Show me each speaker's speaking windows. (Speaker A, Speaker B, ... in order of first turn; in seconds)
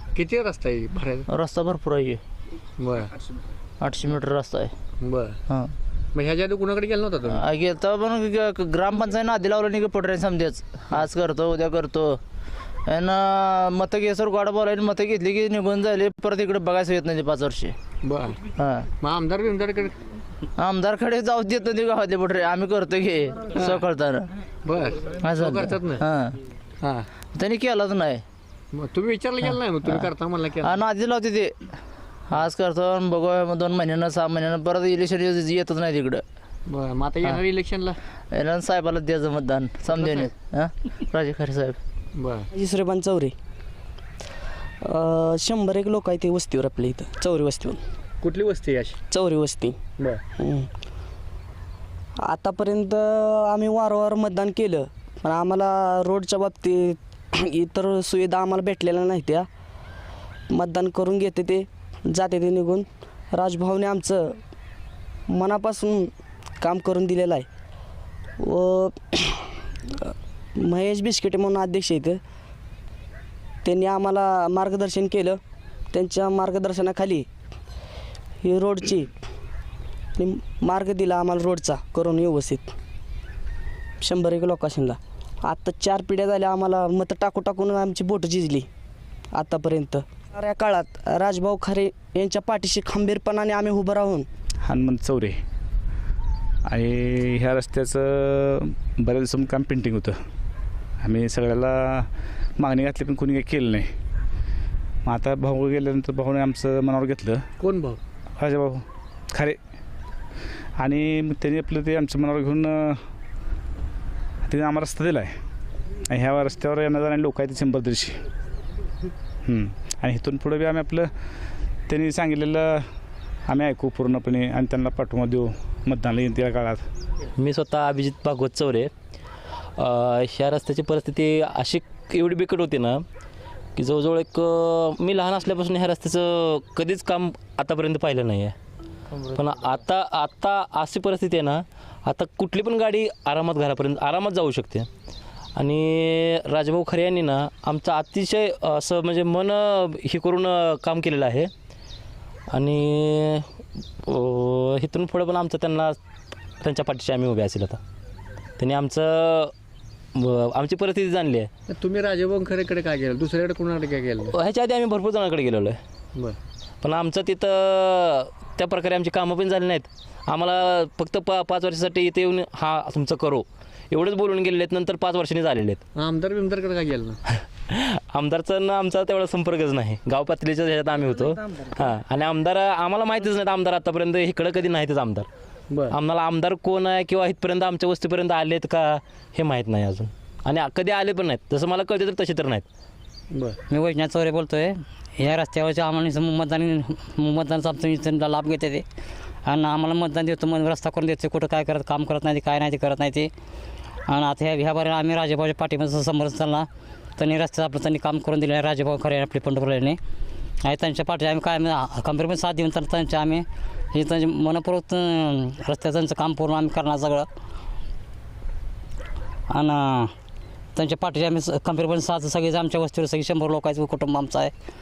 Speaker A: 0.1-1.2, 2.8-3.1, 5.0-5.4, 6.1-7.4, 18.0-18.4, 19.0-20.0, 24.6-26.0, 26.8-27.1, 28.7-30.7, 36.7-38.0, 42.1-42.5, 48.2-49.0, 107.6-108.0, 161.7-164.3, 175.9-177.2, 185.7-185.9, 193.3-193.6
Speaker B: 1.3-2.2, 3.8-4.7, 5.5-5.7, 7.2-12.2, 12.9-17.7, 18.6-18.9, 20.6-24.3, 25.2-26.4, 27.3-28.2, 29.8-31.5, 32.3-36.2, 38.3-41.8
Speaker C: 42.5-43.3, 44.8-47.8, 49.1-49.8, 50.4-50.7, 52.2-59.5, 60.5-64.4, 65.3-66.1, 66.6-67.5, 68.4-69.5, 70.0-72.2, 73.6-75.4, 75.9-77.3, 78.4-79.1, 80.2-82.7, 84.0-88.7, 89.3-94.2
Speaker D: 94.6-95.3, 96.7-100.1, 101.0-102.1, 102.6-103.9, 105.0-107.4, 108.4-108.8, 110.8-112.9, 114.5-115.3, 116.1-118.1, 119.5-121.1, 121.9-122.7, 123.5-126.8
Speaker E: 127.4-128.9, 129.8-133.0, 133.8-138.5, 139.3-144.9, 145.6-151.5, 152.5-153.4, 154.0-156.0, 156.6-157.8, 158.6-159.5, 160.1-161.5, 164.3-165.8, 166.8-175.8, 177.7-185.3, 185.9-192.7
Speaker F: 193.7-198.8, 199.4-203.3, 204.1-210.0, 210.6-217.3, 219.5-220.1, 220.8-224.5